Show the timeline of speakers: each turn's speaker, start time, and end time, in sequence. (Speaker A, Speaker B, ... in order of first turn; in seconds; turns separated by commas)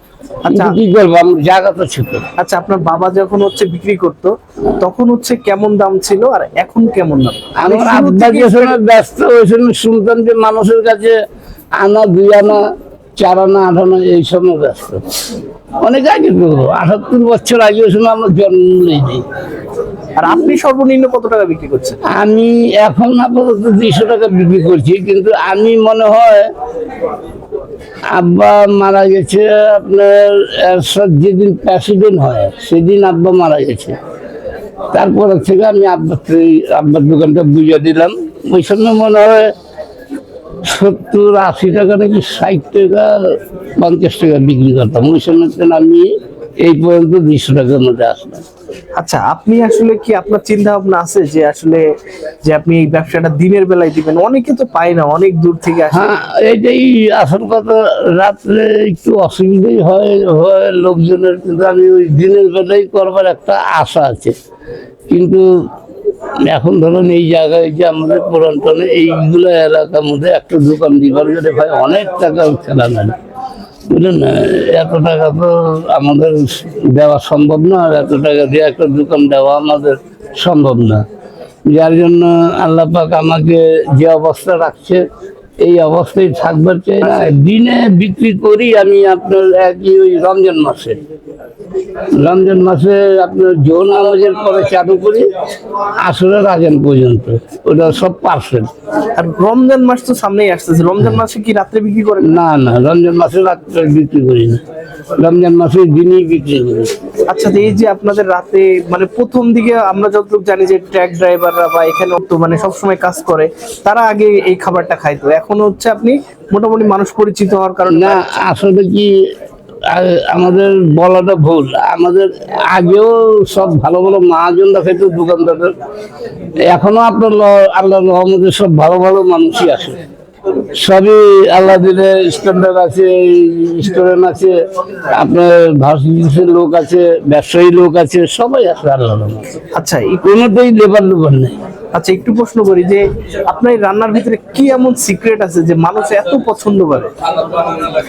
Speaker A: 0.4-0.8, Speaker B: 0.5-2.3, Speaker A: 2.4-8.8, Speaker B: 7.6-11.2, Speaker B: 11.8-12.7, Speaker B: 13.2-15.0, Speaker B: 15.8-19.2, Speaker A: 20.2-22.0, Speaker B: 22.1-26.5, Speaker B: 28.1-34.0, Speaker B: 34.9-39.5, Speaker B: 40.6-48.5, Speaker A: 49.0-51.9, Speaker A: 52.4-56.1, Speaker B: 55.9-64.4, Speaker B: 65.1-65.7, Speaker B: 66.4-73.2, Speaker B: 73.9-81.0, Speaker B: 81.7-85.0, Speaker B: 85.6-91.0, Speaker B: 92.1-95.3, Speaker B: 96.0-98.7, Speaker A: 99.1-102.3, Speaker B: 102.3-104.6, Speaker B: 105.2-106.9, Speaker A: 107.3-118.2, Speaker B: 117.9-119.2, Speaker B: 119.9-125.8, Speaker B: 126.6-130.0, Speaker B: 130.8-134.6, Speaker B: 135.1-139.5, Speaker A: 139.8-140.3, Speaker B: 140.2-141.6, Speaker A: 141.9-147.1